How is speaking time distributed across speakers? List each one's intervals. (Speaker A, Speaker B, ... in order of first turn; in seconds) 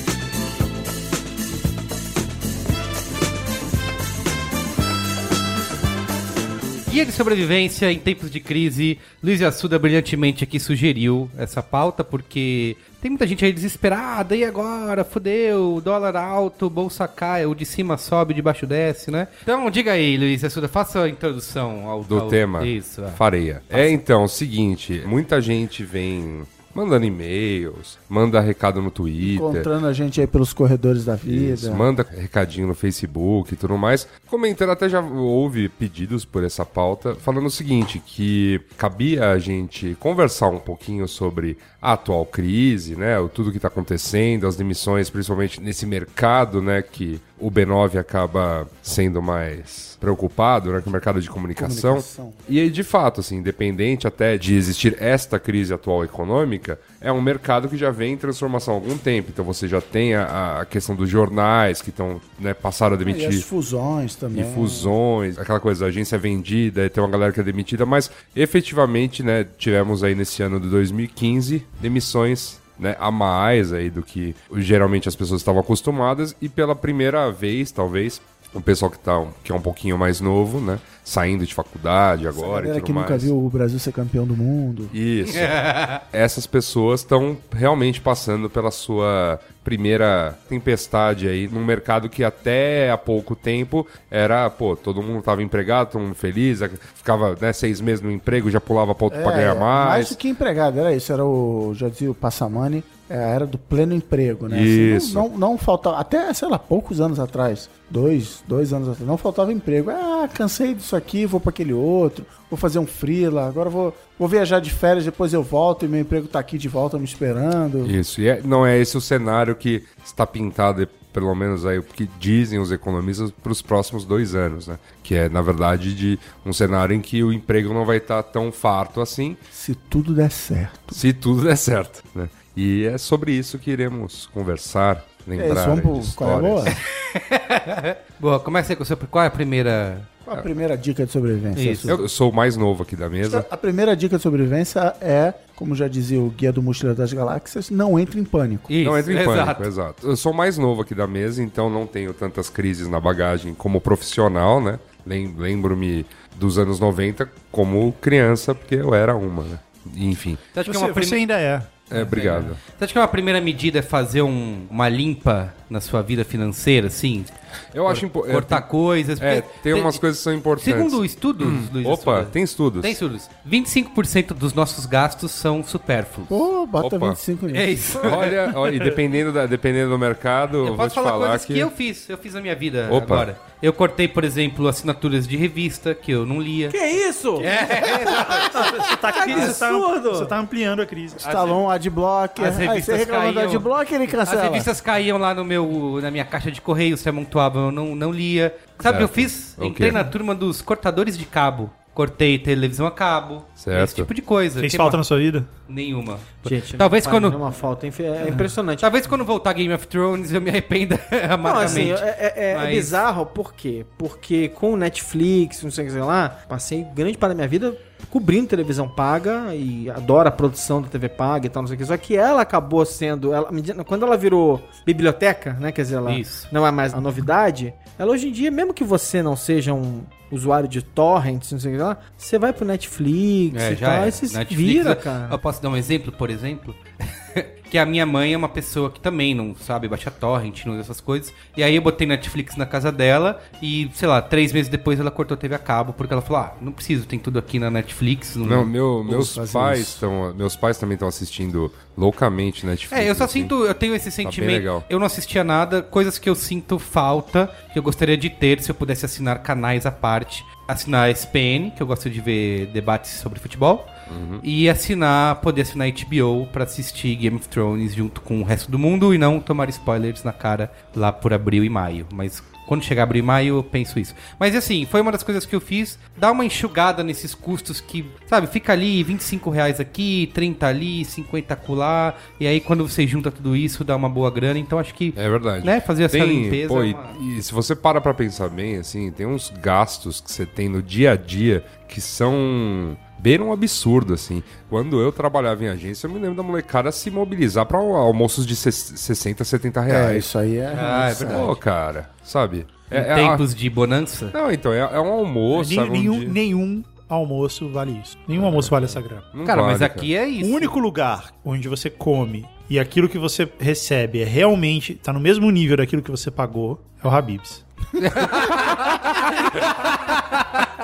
Speaker A: 6.9-24.0, 85.2-86.0, 136.7-140.1, 141.5-142.0, 148.7-149.7, 160.5-161.2, 161.9-167.3, 167.9-170.0, 170.6-176.5, 177.5-178.9, 180.6-186.8, 187.3-188.6, 191.2-191.6, 192.4-193.7, 194.2-205.0, 205.7-207.4, 208.2-213.0, 226.1-226.5, 233.5-249.3, 252.9-287.2, 300.7-301.6, 302.9-304.4, 309.4-310.7, 318.0-320.6
Speaker B: 22.1-29.7, 31.3-63.5, 64.3-83.3, 84.9-100.2, 104.5-105.2, 117.8-129.4, 130.9-136.7, 141.9-143.4, 148.8-160.4, 161.9-162.6, 167.7-172.9, 176.8-177.2, 178.0-181.7, 182.9-183.3, 198.8-200.0, 203.6-204.1, 248.4-253.5, 254.2-254.8, 264.1-264.4, 285.1-300.3, 301.3-303.4, 304.3-306.4, 308.4-310.1
Speaker C: 29.2-31.9, 51.6-52.4, 63.0-64.9, 82.3-84.9, 99.1-117.9, 129.5-131.0, 135.3-136.8, 140.3-142.0, 143.2-148.7, 176.3-177.9, 191.2-194.7, 249.2-250.0, 299.9-301.5
Speaker D: 160.6-161.9, 188.2-191.2, 204.6-205.5, 305.5-309.3, 310.4-317.6
Speaker E: 186.7-190.3, 206.4-208.9, 211.4-235.4